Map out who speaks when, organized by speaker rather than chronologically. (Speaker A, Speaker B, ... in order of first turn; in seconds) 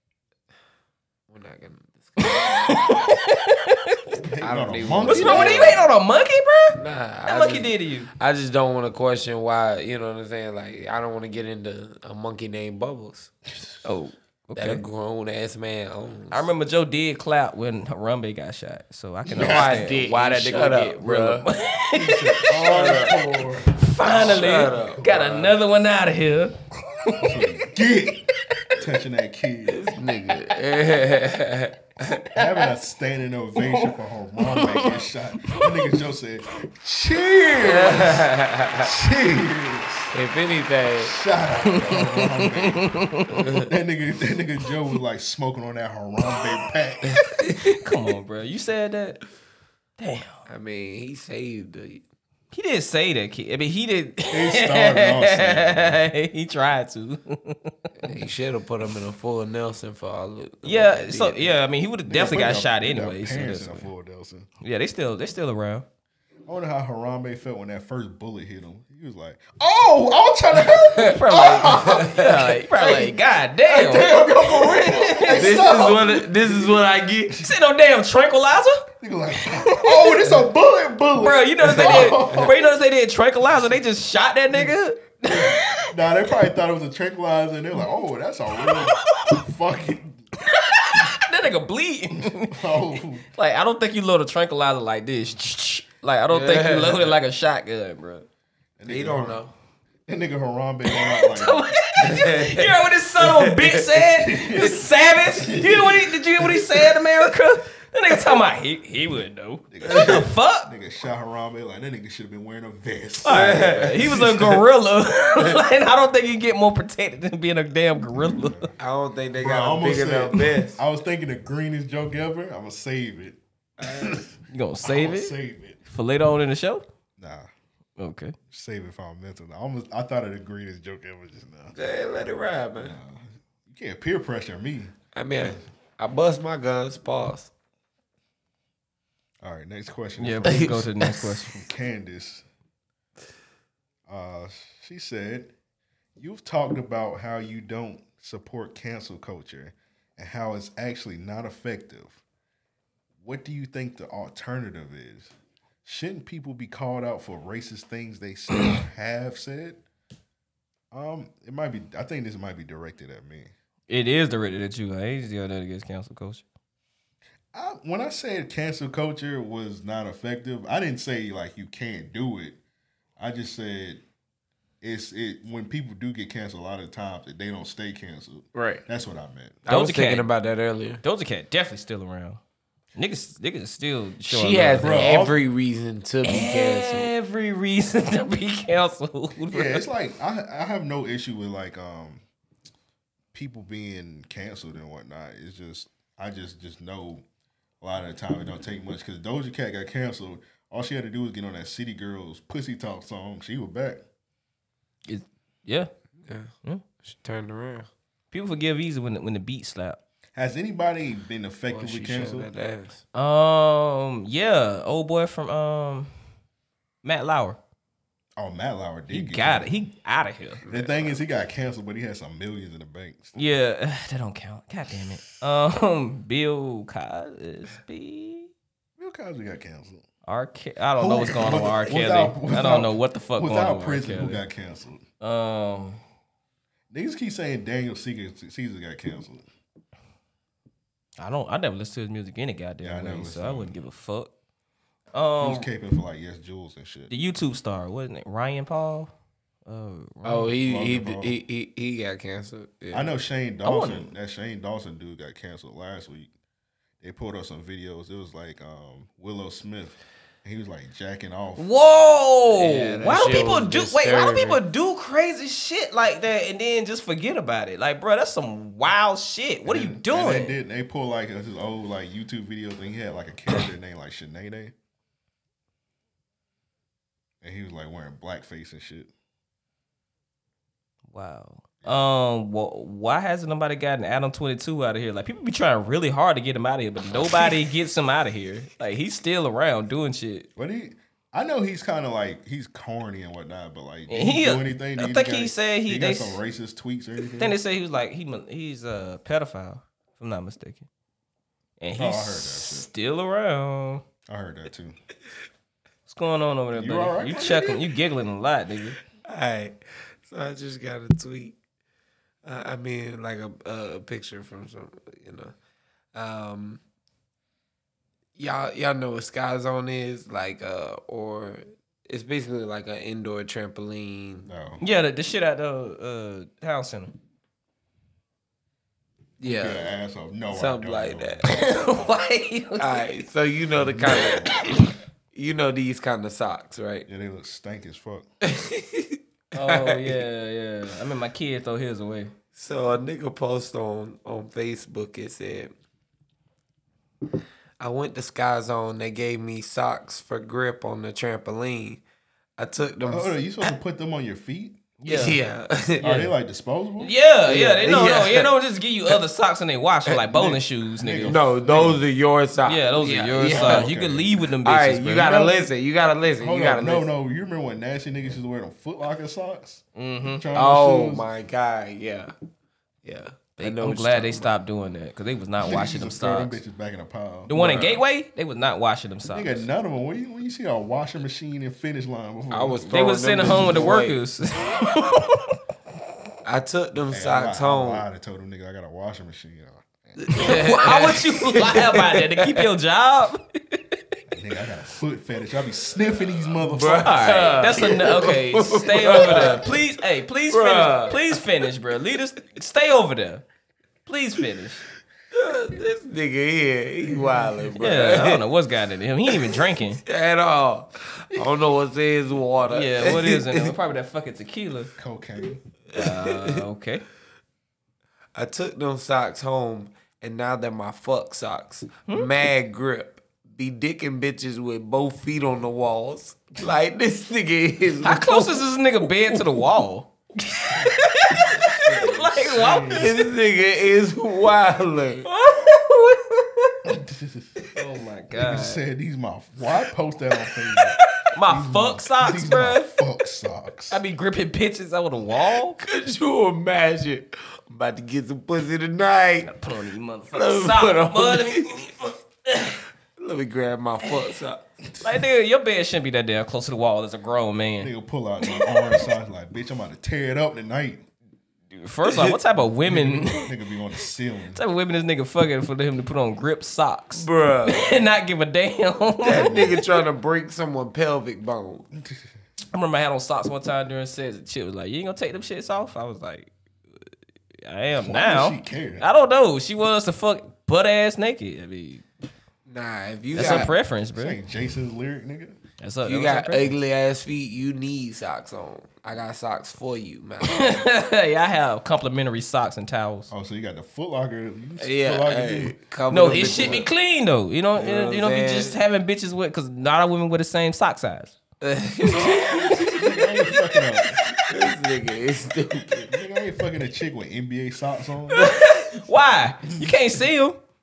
Speaker A: 1.3-2.7, 4.4-5.8, 6.8-13.3, 13.8-16.5, 19.3-21.4, 22.7-23.1, 24.1-25.4, 29.7-32.2, 37.6-38.9, 40.1-41.1, 50.5-52.0, 58.0-61.6, 70.9-72.4, 75.3-77.4, 81.8-82.5, 96.3-97.2, 98.9-99.5, 102.0-102.7, 103.2-103.8, 113.3-114.0, 118.8-120.8, 123.8-124.2, 131.7-132.9, 135.1-137.5, 178.5-178.8, 179.7-181.0, 184.3-187.1, 206.2-206.5, 207.0-207.9, 211.7-213.0, 250.2-253.1, 262.5-264.6, 309.2-311.6, 312.4-315.5, 316.1-316.8, 318.4-324.5, 329.4-329.9, 330.5-331.4, 332.8-334.5, 335.3-337.1, 338.4-340.2, 342.5-345.7, 347.8-352.0, 352.6-353.7, 355.1-356.3, 357.4-358.5, 361.2-363.9, 364.6-367.1, 370.5-372.3, 373.0-374.5, 382.5-384.2, 386.4-388.0, 390.2-392.6, 396.7-399.7, 400.5-401.4, 405.3-408.4, 410.0-413.7, 415.9-416.6, 418.3-428.6, 432.9-435.3, 445.8-449.5, 450.3-451.7, 453.2-454.6, 462.1-462.3, 467.1-468.0, 469.2-471.9, 482.7-483.7, 486.0-490.8, 494.8-496.9, 497.8-498.8, 501.6-503.0, 504.5-506.1
Speaker B: 2.3-4.2, 5.1-8.1, 14.5-14.8, 16.3-23.1, 23.7-27.4, 34.6-34.9, 41.6-43.5, 47.6-49.2, 50.0-50.4, 52.5-57.7, 60.6-63.9, 64.6-65.8, 71.1-75.7, 77.4-78.8, 79.5-80.3, 81.2-85.9, 88.7-89.4, 90.4-98.2, 100.9-110.7, 113.2-118.7, 124.5-125.3, 125.8-126.8, 128.0-128.3, 140.2-141.6, 163.9-166.4, 179.7-180.3, 181.0-182.4, 182.9-185.1, 186.2-189.8, 205.1-205.9, 208.3-210.0, 213.1-216.1, 217.0-217.6, 219.1-221.2, 223.3-228.5, 230.2-234.4, 235.2-236.0, 241.2-244.3, 245.1-245.7, 247.1-249.1, 249.7-250.5, 253.6-254.1, 261.6-270.6, 281.1-290.5, 294.1-296.4, 297.4-300.9, 301.8-304.0, 306.1-309.0, 324.8-327.1, 331.5-333.0, 339.5-342.3, 355.0-355.4, 357.0-361.4, 362.6-365.4, 369.9-370.4, 373.6-376.6, 377.5-379.6, 382.9-385.5, 390.3-393.9, 396.9-403.4, 404.1-404.9, 407.8-410.0, 412.7-414.9, 415.9-417.0, 428.0-433.2, 435.2-436.5, 437.7-438.8, 441.3-443.0, 443.9-445.8, 449.4-452.8, 455.0-457.9, 461.7-463.5, 464.5-469.6, 472.7-476.5, 477.6-482.0, 483.3-484.4, 485.8-486.7, 490.4-493.3, 496.1-501.4, 508.4-510.6
Speaker C: 4.2-5.8, 19.3-19.7, 21.9-25.5, 27.2-29.8, 32.3-40.1, 41.0-47.2, 54.3-56.0, 62.0-64.5, 66.5-76.8, 79.0-82.6, 85.3-90.2, 92.2-93.2, 98.8-99.4, 100.1-102.2, 104.1-106.7, 109.7-114.6, 118.1-118.7, 119.4-125.8, 127.2-127.5, 128.5-131.7, 132.8-135.6, 139.4-142.4, 144.1-145.5, 146.2-152.2, 153.2-155.3, 155.8-159.8, 160.9-163.5, 167.5-172.6, 173.2-174.0, 174.8-179.6, 184.8-185.3, 189.5-192.2, 193.3-197.2, 197.8-204.0, 210.3-212.5, 218.3-219.7, 220.7-223.3, 229.0-230.0, 231.0-235.0, 236.9-239.4, 242.8-243.7, 245.4-247.1, 250.6-251.3, 252.9-256.3, 257.0-261.7, 269.6-274.7, 277.4-279.1, 290.6-297.5, 301.9-302.9, 304.3-304.9, 306.7-307.8, 324.5-324.8, 329.4-331.7, 333.8-334.6, 337.1-338.2, 353.1-355.3, 356.0-357.1, 360.3-362.0, 363.4-364.3, 365.1-365.5, 366.4-369.8, 370.4-371.2, 375.6-378.0, 379.3-382.8, 383.4-383.8, 387.1-390.4, 394.3-397.5, 415.0-415.6, 431.4-433.1, 436.8-437.6, 438.3-444.0, 457.8-461.1, 462.8-464.6, 469.4-469.8, 478.0-479.1, 484.1-485.6, 493.3-496.8, 502.8-504.2, 506.1-508.5